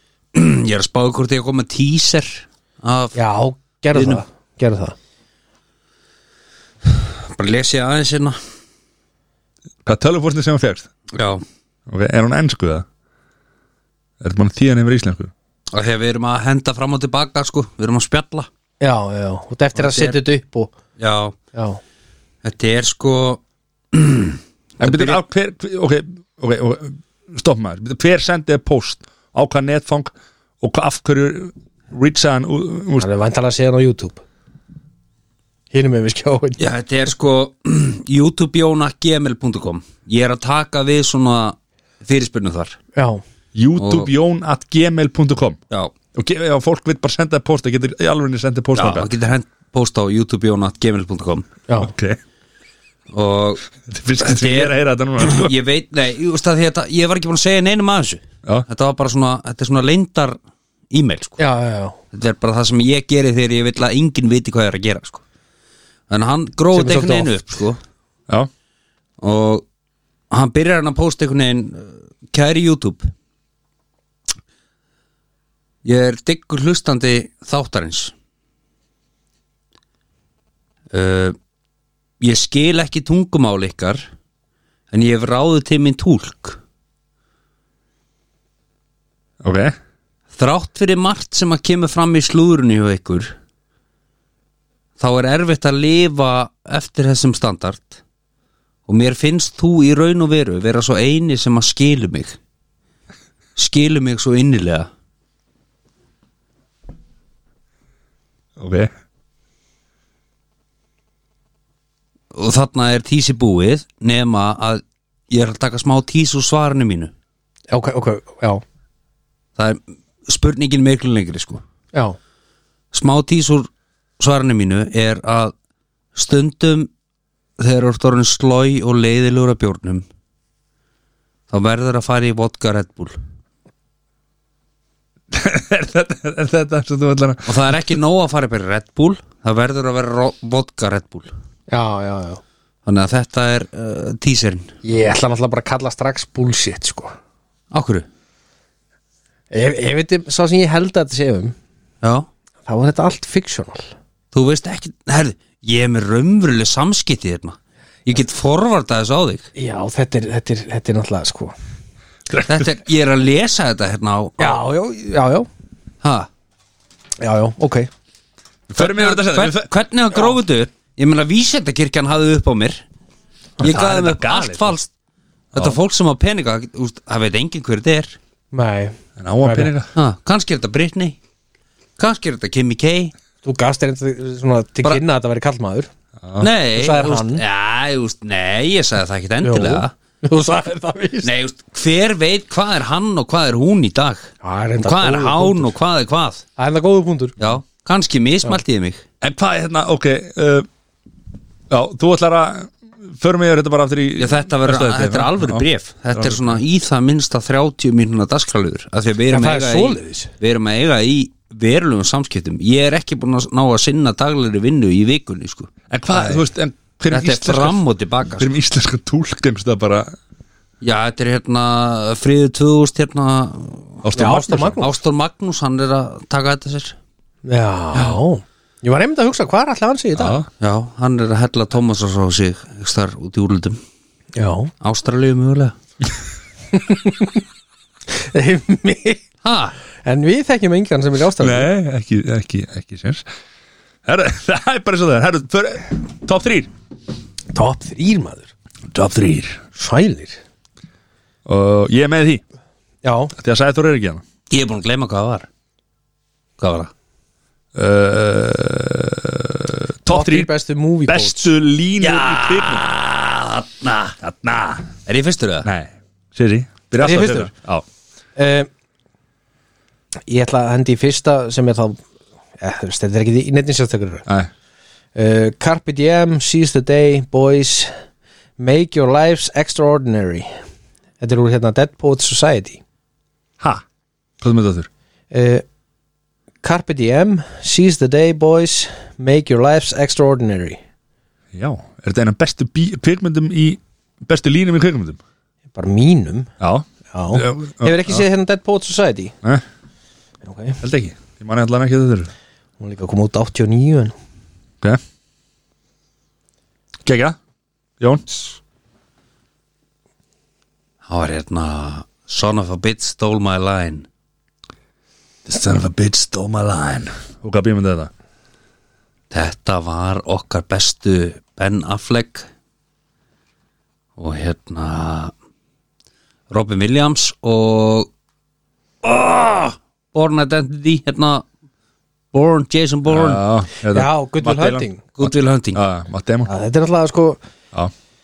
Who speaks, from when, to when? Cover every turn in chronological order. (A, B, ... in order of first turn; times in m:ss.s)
0:00.3-0:03.2 A
0:03.1-0:05.0 B
0:03.9-0:04.2 A
0:06.8-0:08.4 A
0:09.8-0:10.9 C
0:11.1-0:11.4 A
0:11.9-0:12.8 C
0:14.2-0:15.3 C
0:15.7-0:18.5 A
0:18.8-0:20.7 B
0:19.8-0:20.2 A
0:21.0-0:21.3 A
0:21.5-0:21.8 B
0:22.4-0:23.4 A
0:23.9-0:25.2 A
0:24.8-0:33.1 C
0:33.0-0:34.2 B
0:35.7-0:36.6 B
0:36.6-0:42.8 A
0:42.9-0:43.2 B
0:43.5-0:45.6 C
0:43.8-0:44.1 A
0:46.1-0:49.1 C
0:48.8-0:51.5 A
0:51.8-0:52.2 C
0:53.1-0:53.6 A
0:53.9-0:55.5 C
0:54.2-1:00.4 A
1:00.9-1:01.4 A
1:01.4-1:02.0 B
1:02.1-1:05.2 A
1:06.1-1:07.8 A
1:06.7-1:07.4 B
1:09.2-1:09.6 A
1:10.3-1:13.1 A
1:15.8-1:18.1 A
1:20.9-1:21.4 A
1:22.2-1:24.1 A
1:24.9-1:26.6 A
1:29.4-1:29.7 C
1:30.3-1:33.3 A
1:35.0-1:38.0 A
1:38.9-1:42.4 A
1:43.6-1:44.9 A
1:48.6-1:48.9 C
1:52.3-1:57.1 A
1:57.7-1:58.6 B
1:59.6-2:01.6 A
2:02.9-2:05.5 A
2:06.1-2:06.9 A
2:07.6-2:10.0 A
2:11.5-2:13.2 A
2:15.3-2:17.9 C
2:17.4-2:21.3 A
2:21.7-2:22.4 B
2:22.8-2:24.7 A
2:24.8-2:27.1 B
2:27.7-2:28.0 A
2:29.5-2:31.5 B
2:32.0-2:32.3 A
2:32.6-2:33.9 B
2:34.3-2:39.5 A
2:39.6-2:41.5 B
2:42.3-2:42.7 C
2:42.4-2:44.6 A
2:44.4-2:45.5 B
2:46.0-2:46.3 A
2:47.2-2:47.9 B
2:48.7-2:49.7 C
2:48.7-2:52.8 A
2:53.6-2:54.9 A
2:53.6-2:54.7 C
2:55.5-2:58.2 A
2:58.5-2:59.7 B
2:59.2-2:59.9 C
2:59.9-3:01.2 A
3:02.0-3:03.1 A
3:03.4-3:05.9 B
3:06.2-3:06.5 C
3:06.4-3:09.9 A
3:06.7-3:07.4 B
3:09.4-3:11.3 B
3:11.2-3:16.4 A
3:14.4-3:15.7 B
3:16.6-3:17.4 B
3:17.4-3:19.0 A
3:19.2-3:20.7 C
3:21.7-3:26.6 C
3:24.2-3:35.7 A
3:29.3-3:30.3 B
3:35.9-3:37.8 C
3:37.1-3:38.5 A
3:38.4-3:40.2 C
3:40.8-3:47.0 A
3:44.0-3:44.7 C
3:44.1-3:45.0 B
3:47.4-3:50.4 B
3:50.2-3:50.5 C
3:50.6-3:53.8 A
3:54.3-3:54.7 B
3:54.8-3:55.7 A
3:56.7-3:57.4 B
3:58.1-3:59.2 B
3:59.4-3:59.7 A
4:00.0-4:01.7 B
4:01.4-4:03.2 C
4:04.0-4:06.7 C
4:07.5-4:08.5 B
4:08.9-4:09.6 C
4:09.7-4:10.4 B
4:11.4-4:12.4 C
4:13.0-4:13.3 B
4:13.3-4:14.2 C
4:14.5-4:15.5 A
4:16.6-4:16.9 A
4:17.7-4:20.5 C
4:20.1-4:21.5 B
4:21.1-4:22.8 C
4:22.0-4:24.1 A
4:24.2-4:24.9 C
4:25.0-4:25.7 A
4:25.6-4:27.8 C
4:27.0-4:27.5 B
4:28.4-4:28.7 B
4:30.3-4:32.0 B
4:32.6-4:34.3 B
4:35.1-4:37.9 B
4:38.6-4:40.5 B
4:41.2-4:42.8 B
4:44.4-4:44.9 C
4:45.3-4:45.6 B
4:46.6-4:50.8 B
4:51.5-4:55.2 C
4:55.7-4:56.5 B
4:56.6-4:58.2 C
4:57.1-4:59.3 B
5:00.4-5:00.8 B
5:00.8-5:02.3 C
5:02.8-5:04.1 B
5:07.0-5:07.4 C
5:08.0-5:08.2 C
5:11.0-5:14.1 A
5:15.4-5:18.1 C
5:19.3-5:22.5 A
5:24.2-5:25.3 A
5:26.5-5:28.1 A
5:29.0-5:31.4 A
5:32.3-5:33.4 A
5:33.1-5:36.5 C
5:33.9-5:35.0 B
5:35.2-5:35.8 A
5:36.4-5:37.4 B